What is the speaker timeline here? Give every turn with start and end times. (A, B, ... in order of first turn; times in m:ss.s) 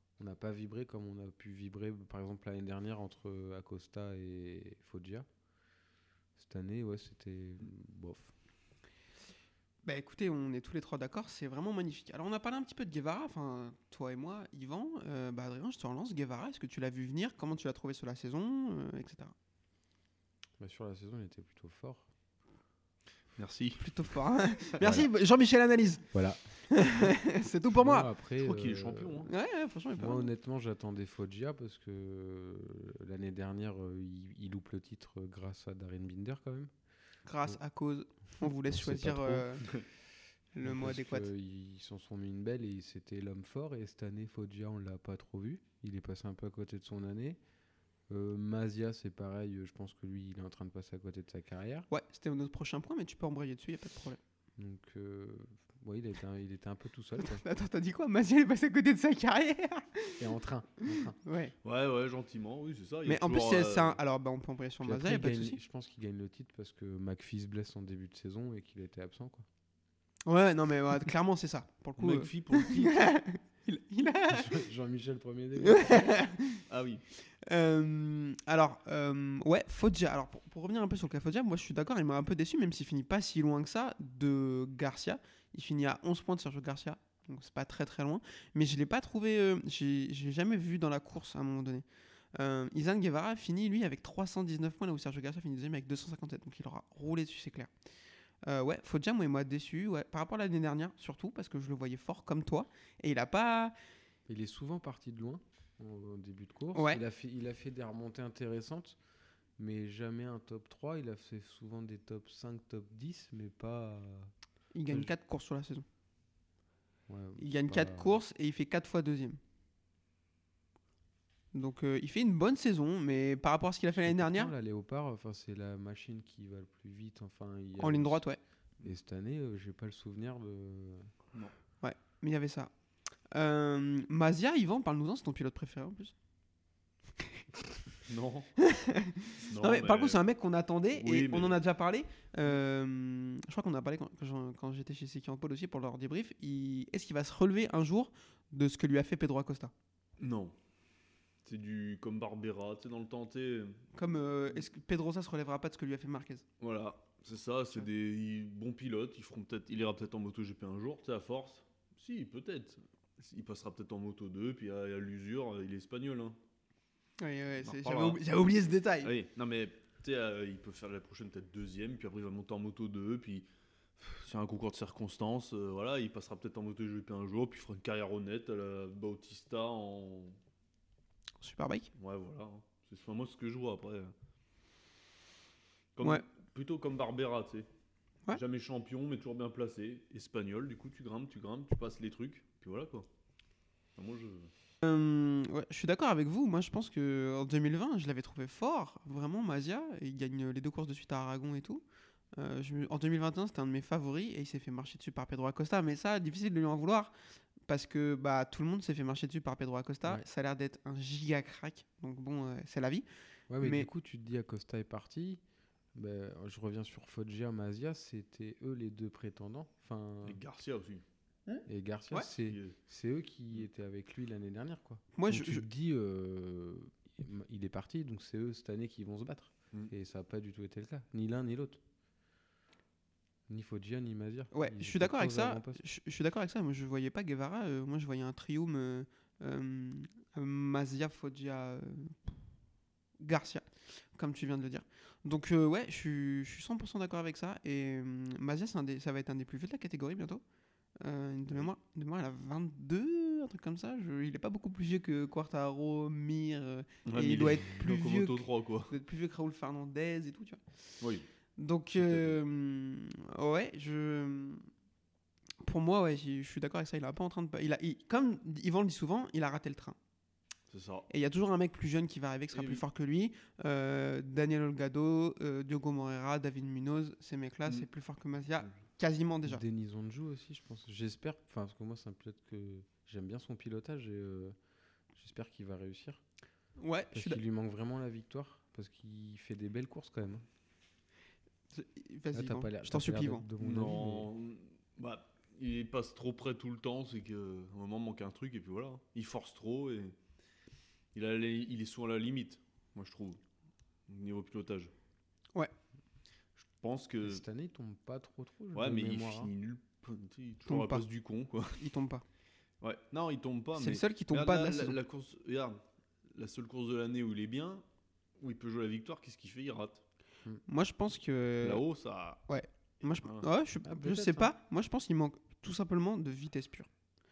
0:00.2-0:05.3 A
0:06.4-0:08.3 A
0:09.8-0:19.3 B
0:20.6-0:22.1 A
0:23.4-0:24.1 C
0:23.8-0:26.1 B
0:24.8-0:25.1 A
0:26.1-0:26.4 A
0:26.7-0:28.1 B
0:27.8-0:29.3 A
0:28.4-0:29.3 C
0:29.3-0:30.3 B
0:30.0-0:36.7 A
0:37.3-0:39.7 B
0:38.7-0:39.6 A
0:40.6-0:41.3 B
0:40.6-0:47.4 A
0:48.1-0:51.9 A
0:51.9-0:54.2 B
0:54.6-0:57.4 A
0:57.2-1:00.2 B
1:00.2-1:01.2 A
1:01.2-1:01.5 B
1:01.6-1:04.0 C
1:03.1-1:05.6 B
1:04.8-1:09.5 A
1:10.3-1:14.6 B
1:12.0-1:13.0 C
1:14.3-1:16.2 A
1:15.6-1:16.6 B
1:16.7-1:17.0 C
1:17.5-1:37.7 B
1:38.5-1:43.8 B
1:44.3-1:49.0 A
1:46.7-1:47.0 B
1:49.6-1:54.3 A
1:54.7-1:55.8 B
1:57.1-1:58.2 A
1:57.4-1:59.4 B
2:01.5-2:04.5 B
2:04.1-2:08.2 A
2:07.8-2:08.4 B
2:08.8-2:11.1 A
2:11.8-2:12.7 B
2:13.3-2:16.1 B
2:18.0-2:18.5 C
2:18.6-2:29.7 B
2:19.5-2:20.2 C
2:21.0-2:21.6 C
2:30.2-2:30.6 C
2:31.4-2:33.8 C
2:34.0-2:36.4 B
2:36.6-2:46.4 C
2:47.2-2:49.1 B
2:47.6-2:48.2 C
2:49.0-2:53.5 C
2:54.0-3:00.4 C
3:01.4-3:01.9 B
3:02.0-3:04.1 C
3:06.0-3:07.7 C
3:08.3-3:13.1 C
3:14.0-3:14.5 C
3:14.8-3:21.8 B
3:22.4-3:27.1 B
3:27.7-3:33.1 B
3:33.5-3:35.4 A
3:33.6-3:33.9 B
3:35.9-3:40.4 A
3:40.2-3:41.0 C
3:41.7-3:51.8 A
3:42.3-3:42.8 C
3:45.2-3:45.6 B
3:53.5-3:55.8 A
3:54.5-4:02.3 B
4:03.2-4:10.4 B
4:11.0-4:20.6 B
4:17.1-4:18.9 C
4:21.0-4:21.3 C
4:21.6-4:24.7 B
4:22.0-4:22.4 C
4:25.6-4:30.0 B
4:30.7-4:31.1 C
4:31.1-4:39.6 B
4:32.5-4:32.8 C
4:39.4-4:44.6 A
4:45.2-4:46.2 A
4:46.8-4:47.4 B
4:47.1-4:50.5 A
4:51.7-4:53.5 B
4:52.3-4:54.3 A
4:53.6-5:00.1 C
5:01.1-5:03.4 C
5:04.1-5:04.9 C
5:06.6-5:07.4 C
5:07.2-5:09.5 A
5:08.7-5:11.8 C
5:10.7-5:11.0 B
5:11.8-5:12.2 B
5:12.8-5:17.8 C
5:13.8-5:15.0 B
5:18.4-5:20.0 C
5:20.7-5:21.8 B
5:21.6-5:22.4 C
5:22.5-5:26.9 B
5:23.8-5:24.5 A